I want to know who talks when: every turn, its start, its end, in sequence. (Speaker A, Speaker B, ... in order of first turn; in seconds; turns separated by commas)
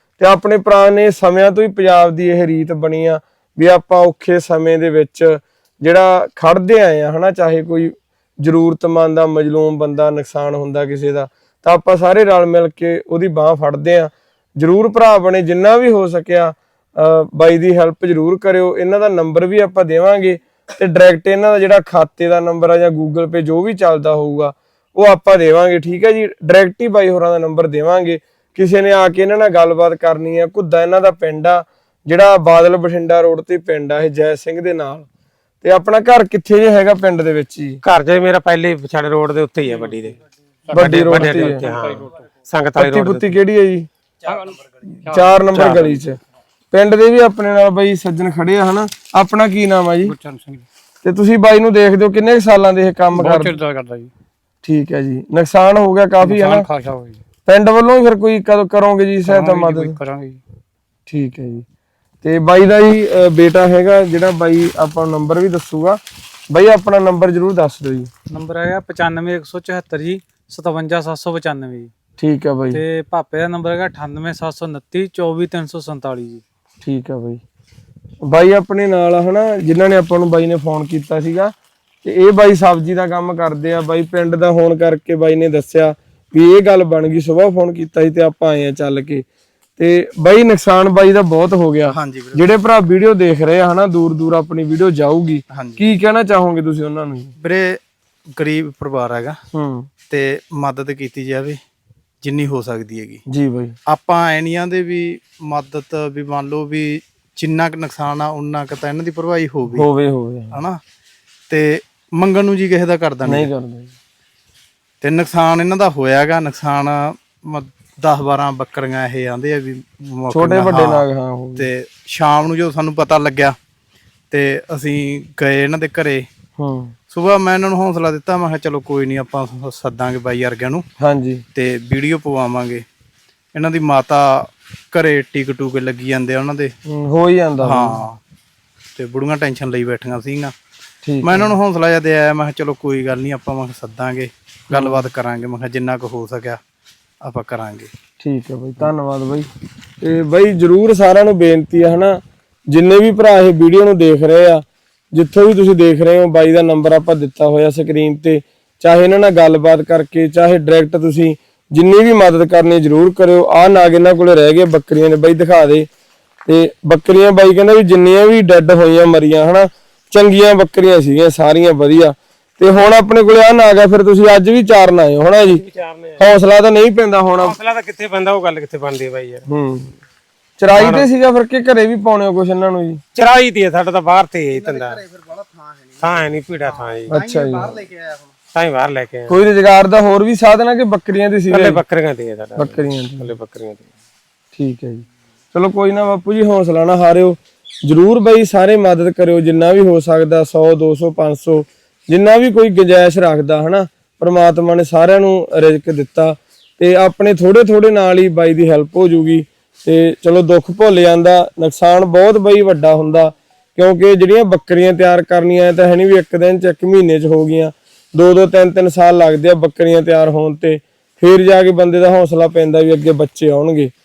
Speaker A: 0.2-35.0, Speaker A: 35.6-37.8, Speaker B: 37.8-40.2, Speaker A: 40.7-41.6, Speaker B: 40.7-43.3, Speaker C: 41.6-42.1, Speaker A: 42.8-43.9, Speaker C: 44.2-45.4, Speaker A: 45.0-46.2, Speaker B: 45.5-45.9, Speaker A: 46.7-50.1, Speaker C: 50.1-50.6, Speaker A: 51.0-53.5, Speaker C: 53.1-54.1, Speaker A: 54.6-56.7, Speaker C: 56.2-57.2, Speaker A: 57.5-60.0, Speaker C: 59.2-60.4, Speaker A: 61.1-61.6, Speaker A: 62.2-66.0, Speaker A: 66.5-68.1, Speaker C: 68.3-69.6, Speaker D: 68.5-71.8, Speaker C: 71.0-71.7, Speaker A: 72.2-72.8, Speaker D: 72.8-76.4, Speaker C: 73.6-76.2, Speaker A: 76.8-77.4, Speaker A: 78.2-89.2, Speaker A: 89.8-97.3, Speaker E: 91.9-92.5, Speaker E: 95.5-95.8, Speaker E: 97.4-97.8, Speaker E: 98.3-99.4, Speaker A: 99.5-99.9, Speaker E: 100.1-101.6, Speaker E: 102.2-103.2, Speaker A: 103.3-103.7, Speaker E: 103.9-109.9, Speaker A: 109.7-110.5, Speaker E: 110.5-110.8, Speaker E: 111.5-113.5, Speaker A: 113.2-113.9, Speaker E: 115.0-121.0, Speaker A: 120.3-121.7, Speaker E: 121.6-123.5, Speaker E: 124.3-126.2, Speaker A: 126.6-126.9, Speaker E: 127.1-130.8, Speaker A: 131.0-131.4, Speaker E: 131.5-132.8, Speaker E: 133.5-136.7, Speaker A: 136.9-138.0, Speaker E: 137.6-138.2, Speaker E: 138.9-140.5, Speaker A: 141.0-141.6, Speaker E: 141.2-146.6, Speaker A: 144.7-145.1, Speaker E: 147.2-147.9, Speaker A: 148.2-149.5, Speaker A: 150.0-165.9, Speaker A: 166.5-175.6, Speaker B: 175.5-176.2, Speaker A: 176.2-177.5, Speaker B: 177.4-179.4, Speaker A: 179.5-179.9, Speaker A: 180.6-183.0, Speaker B: 180.7-181.1, Speaker B: 183.1-185.0, Speaker B: 186.0-187.2, Speaker A: 187.1-187.8, Speaker E: 187.1-188.2, Speaker B: 188.5-189.4, Speaker A: 189.3-191.8, Speaker B: 191.5-193.8, Speaker A: 192.6-193.3, Speaker A: 194.5-223.9